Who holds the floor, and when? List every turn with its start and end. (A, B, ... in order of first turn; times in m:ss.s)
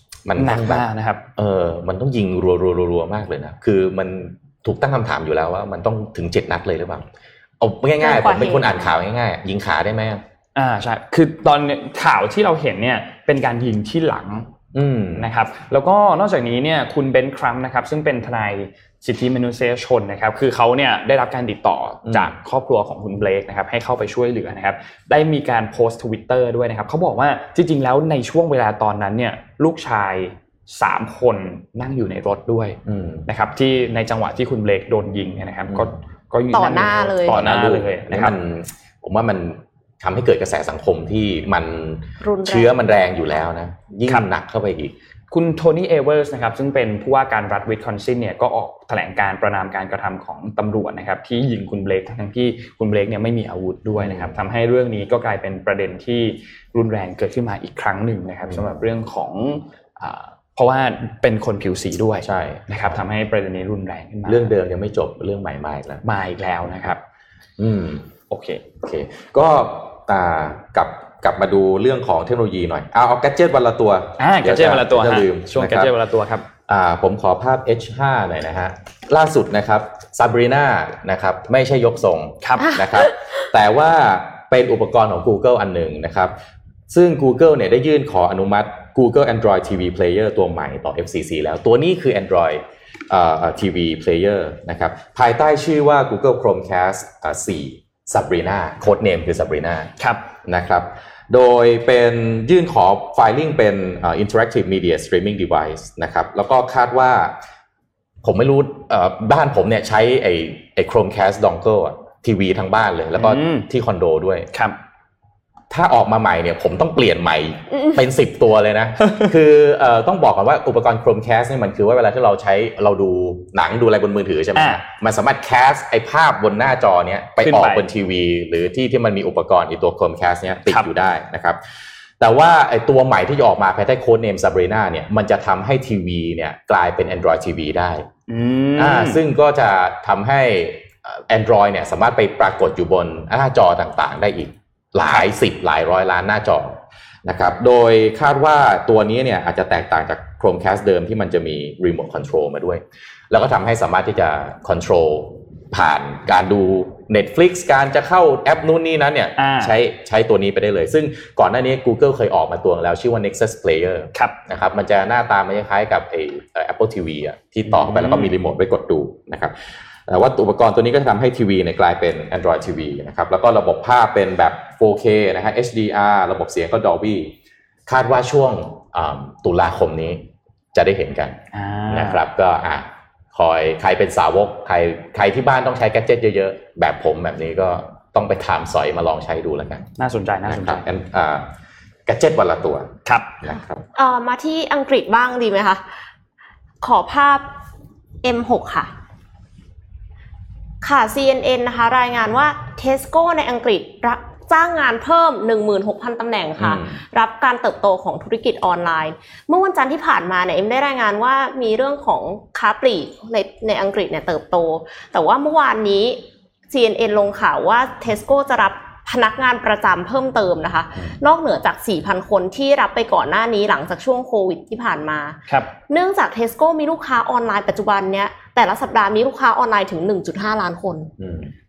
0:00.2-0:00.8 A
0:00.4-0:01.2 B
0:01.4-0:07.1 A
0:07.6-0:10.2 A
0:08.0-0:08.9 C
0:10.6-0:14.5 B
0:14.7-0:15.3 A
0:15.2-0:38.4 B
0:22.1-0:22.3 A
0:32.9-0:33.2 A
0:36.5-0:37.4 C
0:37.3-0:44.9 A
0:42.2-0:42.8 C
0:45.3-1:04.5 B
0:54.0-0:54.4 A
1:02.2-1:03.0 A
1:04.3-1:06.0 A
1:06.0-1:07.0 B
1:07.6-1:08.1 A
1:08.3-1:08.7 B
1:08.8-1:15.9 A
1:14.2-1:16.5 B
1:16.7-1:26.3 A
1:22.4-1:22.8 B
1:22.7-1:23.2 C
1:26.9-1:39.9 A
1:40.0-1:40.2 B
1:40.4-1:47.4 A
1:48.2-1:54.5 A
1:53.2-1:53.7 B
1:55.7-2:11.6 A
1:59.0-1:59.3 B
2:04.6-2:04.8 B
2:07.4-2:07.9 B
2:12.2-2:18.1 A
2:18.3-2:19.2 B
2:18.8-2:57.3 A
2:39.4-2:39.8 B
2:47.7-2:48.3 B
2:57.9-3:01.4 A
3:01.5-3:02.2 B
3:01.9-3:09.9 A
3:10.0-3:10.9 B
3:10.5-3:11.5 A
3:12.1-3:12.9 A
3:13.1-3:13.4 B
3:13.4-3:13.8 A
3:14.0-3:15.8 C
3:16.8-3:17.5 C
3:18.2-3:18.9 C
3:20.8-3:51.1 C
3:26.6-3:27.0 A
3:51.2-3:51.5 A